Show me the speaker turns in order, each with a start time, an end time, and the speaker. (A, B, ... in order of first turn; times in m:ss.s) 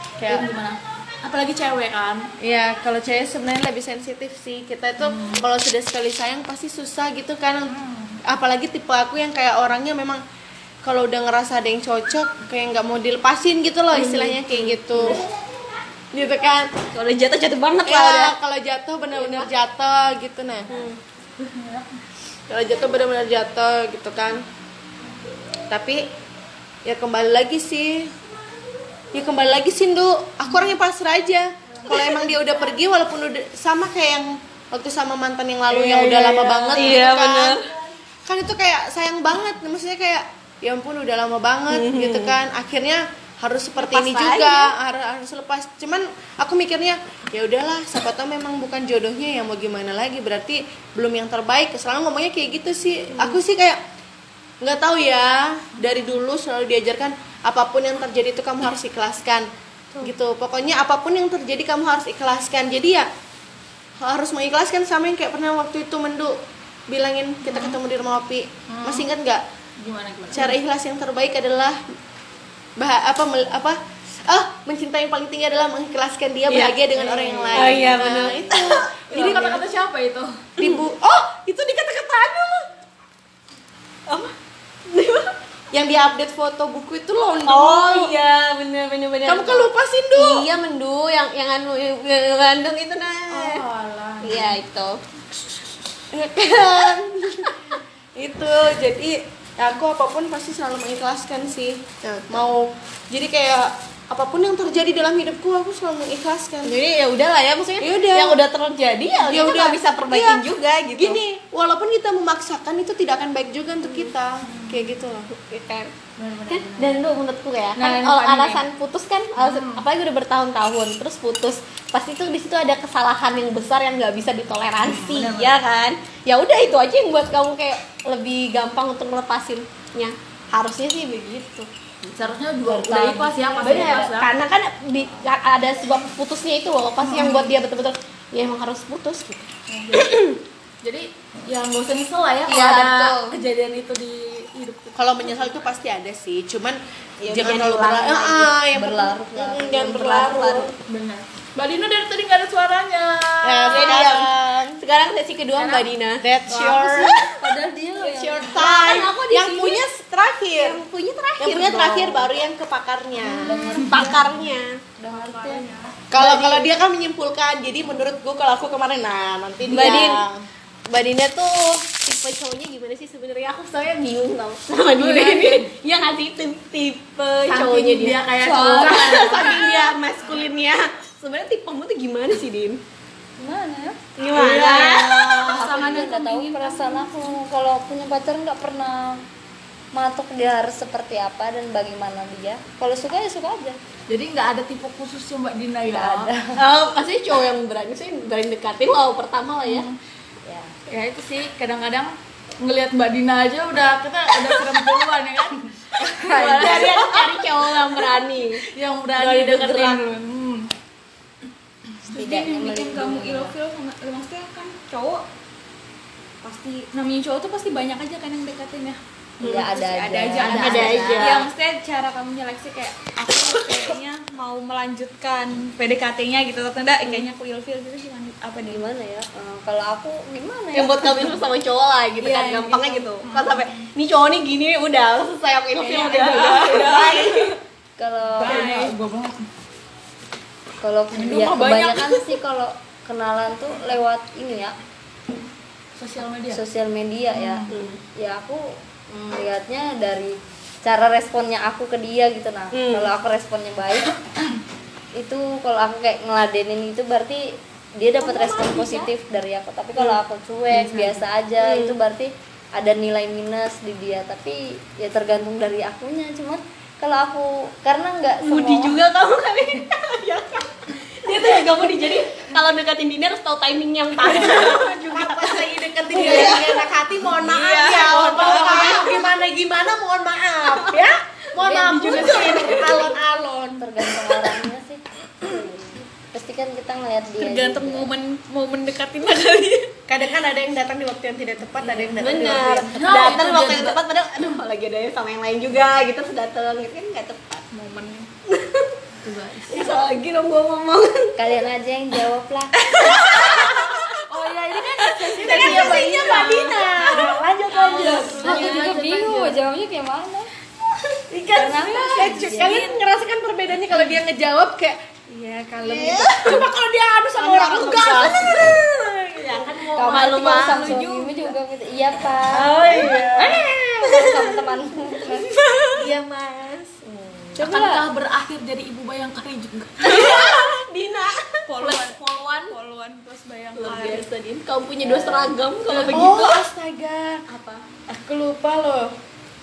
0:00.2-0:00.5 A
0:00.3-0:02.3 B
0:02.4-0:10.2 A
0:05.0-0:05.4 B
0:07.7-0:08.2 B
0:10.8-0:15.2 A
0:13.9-0:15.2 C
0:16.1-0:16.7 A
0:16.7-0:18.3 C
0:17.8-0:20.8 A
0:19.2-0:19.5 C
0:20.7-0:21.0 C
0:21.4-0:22.0 B
0:22.5-0:24.4 A
0:25.7-0:26.0 A
0:26.8-0:28.1 A
0:29.1-0:37.6 A
0:35.7-0:37.7 C
0:38.3-0:53.8 A
0:41.7-0:42.4 C
0:43.8-0:44.7 C
0:53.1-0:53.4 C
0:54.6-0:59.5 A
1:00.0-1:03.1 A
1:04.0-1:09.4 A
1:07.5-1:07.8 B
1:08.7-1:09.1 B
1:09.8-1:10.6 B
1:10.3-1:11.8 A
1:12.8-1:19.5 A
1:16.5-1:19.6 C
1:17.3-1:17.8 B
1:19.1-1:20.4 B
1:20.6-1:22.6 A
1:24.1-1:24.3 C
1:24.9-1:25.3 C
1:25.7-1:28.2 A
1:27.4-1:33.6 C
1:29.2-1:30.5 A
1:33.3-1:34.6 B
1:34.2-1:35.0 C
1:36.1-1:46.7 A
1:42.0-1:42.5 C
1:46.6-1:51.2 C
1:47.8-1:48.4 A
1:49.2-1:50.4 A
1:51.0-1:55.3 A
1:54.5-1:54.9 B
1:55.3-1:55.9 C
1:56.2-1:57.2 B
1:56.5-2:12.1 C
1:57.8-1:58.6 B
1:59.4-1:59.8 B
2:04.8-2:05.6 B
2:12.1-2:14.3 B
2:12.6-2:14.1 D
2:13.6-2:20.4 C
2:17.0-2:17.5 B
2:19.7-2:20.2 B
2:20.8-2:25.5 B
2:22.5-2:23.3 C
2:25.0-2:30.7 A
2:27.2-2:28.6 C
2:28.7-2:30.5 D
2:29.8-2:30.7 C
2:30.8-2:34.1 B
2:33.4-2:34.8 A
2:33.7-2:37.4 C
2:35.6-2:35.9 B
2:36.2-2:37.2 A
2:37.4-2:38.7 D
2:38.0-2:39.8 C
2:38.5-2:40.8 A
2:40.5-2:42.4 C
2:41.4-2:43.8 A
2:43.2-2:44.8 C
2:43.3-2:44.4 D
2:45.0-2:45.6 D
2:45.1-2:45.9 E
2:46.1-2:50.4 A
2:46.2-2:46.6 D
2:49.6-2:50.2 C
2:50.9-3:02.8 C
2:55.0-2:55.7 B
2:57.5-2:59.7 A
2:58.0-2:59.9 B
3:03.4-3:07.2 B
3:04.2-3:05.7 C
3:04.9-3:09.2 D
3:09.9-3:13.8 D
3:14.1-3:16.3 B
3:15.8-3:16.6 D
3:16.6-3:19.9 C
3:19.6-3:19.9 B
3:20.4-3:20.7 D
3:20.9-3:28.2 B
3:26.0-3:26.9 D
3:26.3-3:30.0 C
3:28.7-3:30.7 B
3:32.0-3:35.2 E
3:32.1-3:33.5 D
3:36.6-3:39.0 E
3:39.4-3:39.7 C
3:39.4-3:41.3 D
3:39.5-3:48.8 E
3:40.3-3:41.2 B
3:40.4-3:41.4 C
3:48.6-3:51.2 D
3:50.7-3:57.6 C
3:52.2-3:53.8 B
3:55.8-3:57.3 B
3:55.8-3:57.4 E
3:58.0-3:58.7 D
3:58.4-3:59.4 B
3:58.4-3:58.9 E
4:00.8-4:04.8 D
4:01.4-4:01.8 C
4:01.8-4:02.0 E
4:06.0-4:06.6 B
4:06.5-4:14.2 D
4:07.3-4:07.7 B
4:07.7-4:08.0 C
4:12.7-4:13.1 C
4:15.2-4:29.0 D
4:18.2-4:19.1 E
4:20.8-4:21.0 B
4:21.6-4:22.0 C
4:28.4-4:36.9 C
4:34.2-4:43.9 A
4:37.4-4:38.9 E
4:37.6-4:39.3 C
4:41.6-4:43.1 B
4:41.9-4:43.0 C
4:43.8-4:48.1 D
4:47.4-4:49.9 E
4:50.1-4:53.0 A
4:52.1-4:57.7 C
4:52.9-4:54.0 B
4:57.7-4:58.3 B
4:58.5-4:58.9 C
4:59.2-5:00.0 B
4:59.7-5:01.3 C
5:01.4-5:03.4 D
5:03.0-5:04.2 C
5:03.2-5:03.7 B
5:04.2-5:06.8 B
5:05.0-5:07.1 C
5:05.4-5:09.3 A
5:05.4-5:10.5 D
5:07.7-5:09.6 B
5:08.2-5:08.8 C
5:11.3-5:18.8 A
5:11.5-5:12.9 D
5:11.7-5:12.7 E
5:15.8-5:16.7 C
5:17.4-5:21.5 C
5:19.3-5:21.0 A
5:20.0-5:22.9 D
5:22.5-5:23.7 A
5:22.6-5:23.6 C
5:24.0-5:25.4 D
5:25.1-5:26.1 C
5:25.9-5:27.5 A
5:27.6-5:28.0 D
5:27.6-5:30.5 B
5:30.0-5:32.1 C
5:31.7-5:34.3 E
5:32.1-5:32.7 B
5:33.8-5:36.6 C
5:35.1-5:35.5 D
5:35.9-5:36.3 B
5:36.1-5:37.4 A
5:37.5-5:37.8 E
5:38.1-5:39.1 A